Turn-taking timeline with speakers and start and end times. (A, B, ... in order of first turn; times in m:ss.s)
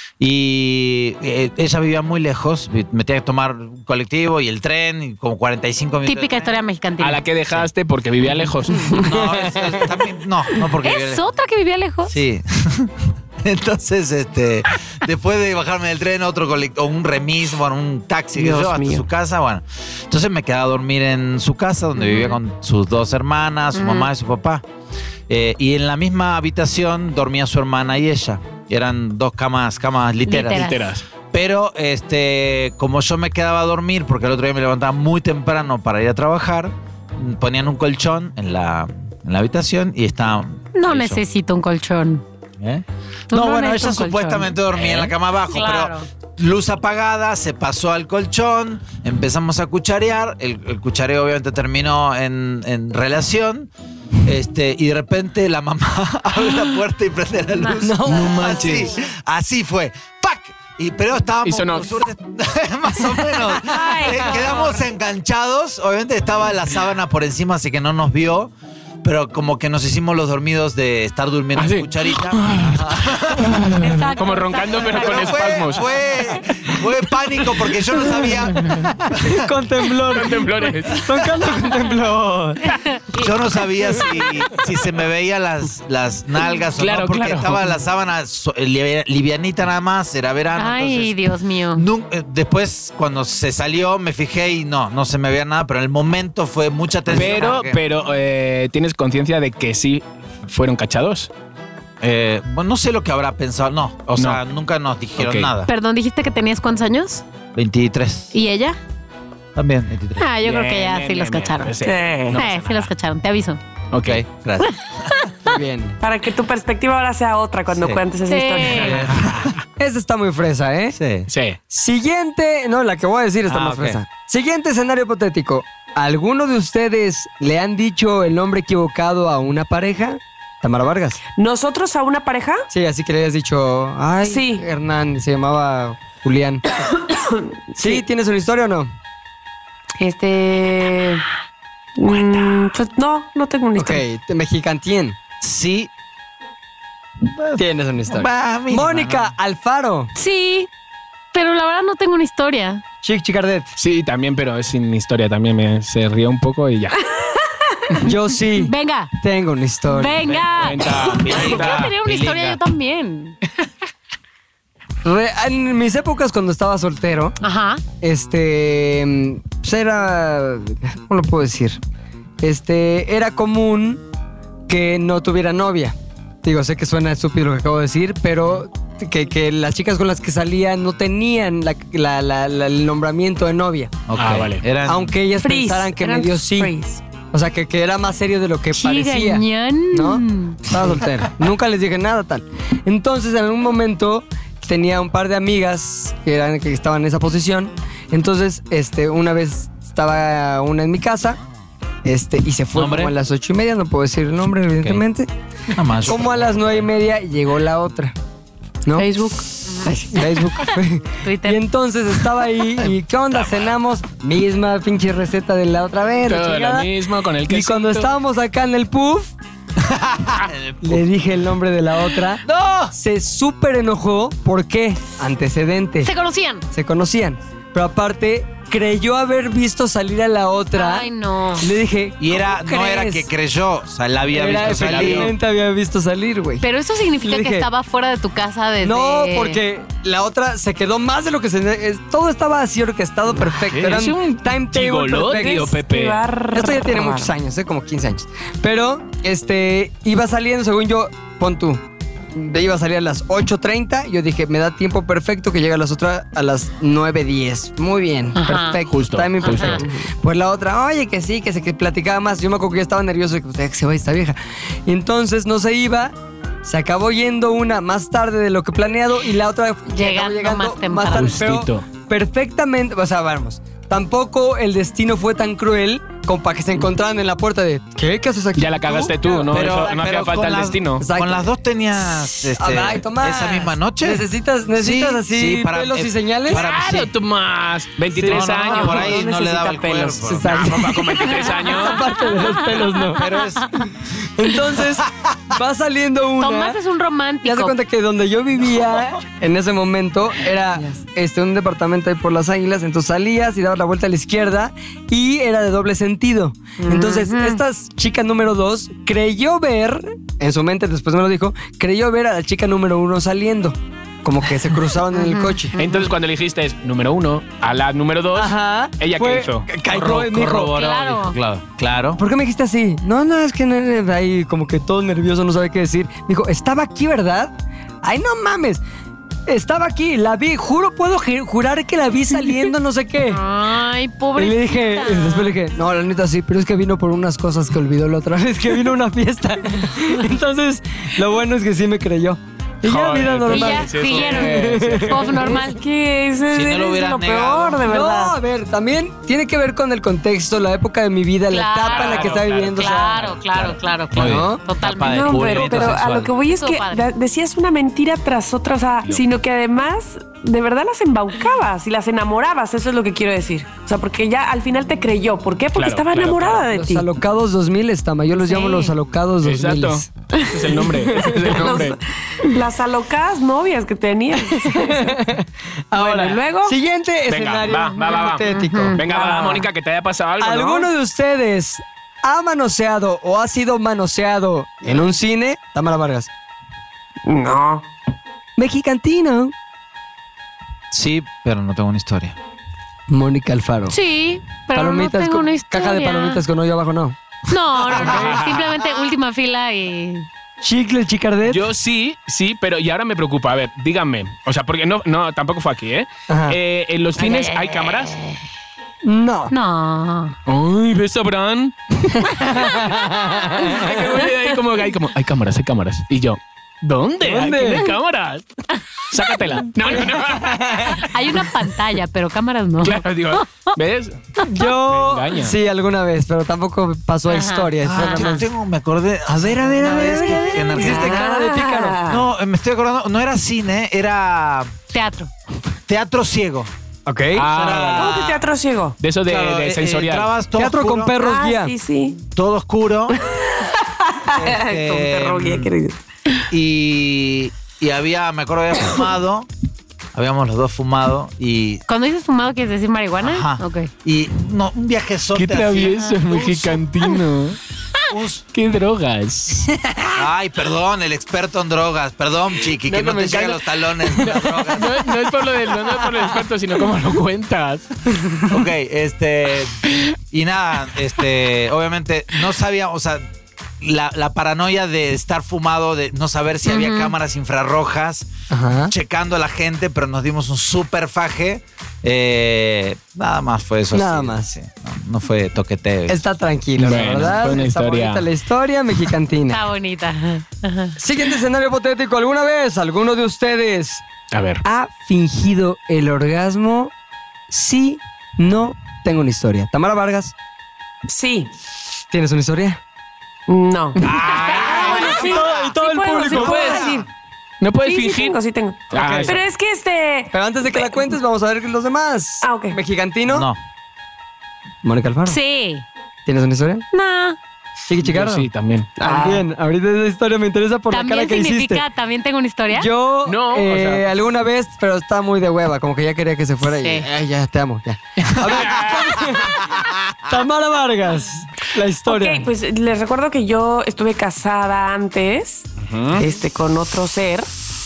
0:00.2-0:06.5 A
0:06.0-0:07.2 B
0:07.0-0:08.9 C
0:08.9-0:11.2 A
0:08.9-0:10.0 D
0:10.8-0:12.2 B
0:12.1-0:24.6 A
0:18.4-0:19.0 E
0:22.0-0:22.4 B
0:23.7-0:24.1 B
0:25.3-0:30.7 A
0:30.2-0:30.9 B
0:30.5-0:31.0 C
0:31.3-0:41.2 A
0:40.7-0:42.2 B
0:42.6-0:53.7 A
0:43.3-0:46.0 B
0:54.2-1:08.5 A
0:57.8-0:58.8 D
0:58.0-0:58.9 C
1:01.4-1:01.9 C
1:03.7-1:04.7 E
1:09.0-1:13.7 A
1:11.6-1:15.8 C
1:13.7-1:15.5 B
1:14.8-1:19.4 A
1:18.5-1:18.9 C
1:19.2-1:22.6 D
1:19.9-1:21.4 C
1:22.8-1:23.2 B
1:23.2-1:31.2 A
1:26.8-1:27.7 C
1:30.6-1:31.8 B
1:31.7-1:37.8 A
1:37.1-1:41.3 C
1:42.0-1:45.7 A
1:44.1-1:44.4 C
1:45.2-1:45.5 C
1:45.6-1:47.2 B
1:47.5-1:48.3 A
1:48.3-1:48.8 B
1:49.5-1:50.2 A
1:50.2-1:51.7 B
1:50.4-1:52.9 C
1:51.8-1:52.4 E
1:52.3-1:53.6 B
1:53.9-1:54.2 C
1:54.0-1:55.3 A
1:55.4-1:56.0 D
1:56.0-1:59.1 E
1:57.7-1:58.0 A
1:58.3-1:59.0 B
1:58.7-1:59.5 C
1:58.8-1:59.5 A
1:59.8-2:01.0 D
2:00.9-2:01.3 A
2:01.3-2:01.6 C
2:01.7-2:11.2 D
2:03.5-2:04.0 A
2:11.4-2:12.7 E
2:12.7-2:16.6 D
2:14.2-2:14.6 E
2:17.0-2:18.0 E
2:17.8-2:18.9 D
2:20.0-2:21.2 E
2:22.0-2:24.0 E
2:23.8-2:25.2 D
2:25.4-2:25.9 A
2:27.2-2:29.3 A
2:27.6-2:30.1 D
2:30.1-2:30.7 B
2:31.3-2:32.8 B
2:33.0-2:33.7 D
2:33.8-2:37.0 C
2:37.2-2:38.0 E
2:38.0-2:40.3 D
2:38.5-2:39.1 B
2:39.9-2:43.4 B
2:40.2-2:42.6 A
2:40.5-2:41.8 C
2:45.0-2:47.4 D
2:47.4-2:47.8 B
2:48.0-2:51.8 D
2:52.4-2:54.0 D
2:54.7-3:04.0 D
3:04.1-3:05.1 A
3:04.2-3:04.6 C
3:04.8-3:06.7 D
3:05.4-3:07.0 E
3:07.3-3:21.4 D
3:08.7-3:10.6 B
3:22.0-3:25.3 D
3:22.7-3:23.1 A
3:25.7-3:26.9 A
3:26.0-3:28.1 D
3:29.0-3:30.2 E
3:29.6-3:29.9 B
3:29.8-3:36.9 D
3:31.2-3:31.6 B
3:33.3-3:33.7 A
3:36.2-3:38.1 C
3:37.5-3:39.3 D
3:39.8-3:41.1 A
3:40.8-3:46.1 D
3:42.4-3:42.9 A
3:46.0-3:46.6 B
3:46.7-3:53.3 D
3:50.7-3:51.7 B
3:52.2-3:55.3 A
3:54.3-3:56.6 D
3:54.4-3:55.3 C
3:56.6-3:59.6 B
3:57.2-3:57.7 D
3:58.8-4:05.7 D
4:03.5-4:06.2 C
4:05.2-4:07.3 E
4:06.5-4:11.8 D
4:12.3-4:39.7 D
4:18.4-4:18.8 B
4:18.9-4:19.8 C
4:19.4-4:19.8 B
4:19.8-4:20.0 E
4:29.9-4:31.4 B
4:31.1-4:31.9 C
4:38.6-4:41.0 C
4:39.5-4:47.1 A
4:41.0-4:41.4 D
4:42.5-4:46.6 D
4:46.5-4:49.2 C
4:48.2-4:50.4 E
4:48.2-4:50.7 A
4:50.2-4:53.3 D
4:50.5-4:52.2 C
4:53.1-4:53.9 A
4:54.4-4:56.8 D
4:55.0-4:55.6 A
4:56.4-4:57.8 B
4:57.4-5:15.8 D
5:06.8-5:07.6 B
5:15.1-5:16.1 B
5:15.8-5:19.7 C
5:18.3-5:20.8 D
5:19.9-5:22.2 A
5:20.5-5:21.4 B
5:22.2-5:28.8 D
5:29.5-5:33.4 D
5:33.3-5:35.5 B
5:34.4-5:45.4 D
5:42.8-5:45.3 C
5:43.5-5:45.8 B
5:45.4-5:48.4 E
5:46.5-5:47.9 A
5:47.8-5:53.3 D
5:51.5-5:55.6 B
5:51.8-5:53.3 C
5:53.5-5:56.3 A
5:54.2-5:54.6 D
5:55.0-6:07.1 E
5:55.4-5:55.9 C
5:56.5-5:57.1 B
6:05.7-6:06.6 C
6:06.7-6:10.1 D
6:08.5-6:08.9 B
6:09.4-6:12.0 C
6:10.3-6:10.8 E
6:11.0-6:11.6 D
6:11.4-6:15.2 E
6:14.6-6:19.0 D
6:15.9-6:16.8 E
6:17.3-6:20.9 C
6:18.5-6:19.0 B
6:19.0-6:19.7 E
6:20.4-6:26.3 D
6:27.2-6:27.9 E
6:28.6-6:29.5 D
6:30.9-6:32.4 A
6:33.1-6:34.0 D
6:33.9-6:36.4 B
6:34.7-6:37.2 D
6:37.5-6:40.3 B
6:38.0-6:38.7 C
6:40.6-6:41.6 D
6:41.4-6:48.2 C
6:46.3-6:46.6 D
6:47.2-6:48.4 B
6:49.0-6:49.5 D
6:49.5-6:50.3 B
6:50.4-6:58.5 C
6:52.2-6:54.2 D
6:52.5-6:52.9 B
6:57.2-6:57.9 D
6:59.1-7:01.0 C
6:59.9-7:01.1 D
7:00.8-7:03.8 B
7:02.8-7:05.6 C
7:04.5-7:08.5 D
7:07.3-7:08.4 B
7:07.8-7:11.3 A
7:09.4-7:12.0 D
7:10.7-7:12.2 E
7:12.0-7:14.7 A
7:14.9-7:15.3 B
7:15.9-7:16.7 A
7:17.0-7:17.5 D
7:17.3-7:18.2 C
7:17.5-7:18.4 A
7:17.9-7:19.0 E
7:19.0-7:20.3 C
7:19.2-7:21.2 A
7:20.6-7:21.7 D
7:21.2-7:22.2 E
7:22.3-7:23.2 A
7:23.1-7:26.0 E
7:24.3-7:25.7 A
7:26.5-7:29.5 A
7:30.1-7:31.8 A
7:31.9-7:33.9 B
7:33.2-7:36.8 A
7:35.3-7:37.6 C
7:38.1-7:38.4 A
7:38.5-7:39.9 C
7:40.1-7:45.0 A
7:42.8-7:47.9 C
7:48.5-7:53.2 A
7:53.8-7:58.3 A
7:56.6-7:57.1 B
7:58.5-7:58.9 D
7:58.9-8:06.2 A
8:03.9-8:04.5 D
8:06.1-8:09.6 D
8:06.8-8:08.3 C
8:06.9-8:07.5 A
8:09.5-8:11.0 B
8:11.0-8:14.0 D
8:14.3-8:14.6 C
8:14.6-8:16.9 D
8:17.5-8:20.3 D
8:21.0-8:21.5 E
8:22.1-8:22.8 D
8:23.5-8:27.1 E
8:24.0-8:27.0 A
8:24.1-8:24.6 C
8:24.2-8:26.9 D
8:27.6-8:28.4 C
8:27.8-8:31.0 E
8:28.9-8:29.4 C
8:29.0-8:29.3 D
8:30.3-8:33.5 D
8:32.4-8:32.8 E
8:33.3-8:33.6 A
8:34.8-8:35.4 D
8:35.2-8:35.8 B
8:36.2-8:36.8 D
8:36.9-8:37.4 B
8:37.9-8:38.5 D
8:38.0-8:38.9 C
8:39.0-8:39.4 E
8:39.0-8:41.8 D
8:40.9-8:42.9 B
8:42.7-8:52.5 D
8:43.2-8:44.0 C
8:46.8-8:47.1 B
8:48.3-8:49.1 C
8:49.3-8:50.1 A
8:52.0-8:57.5 E
8:55.8-8:56.2 C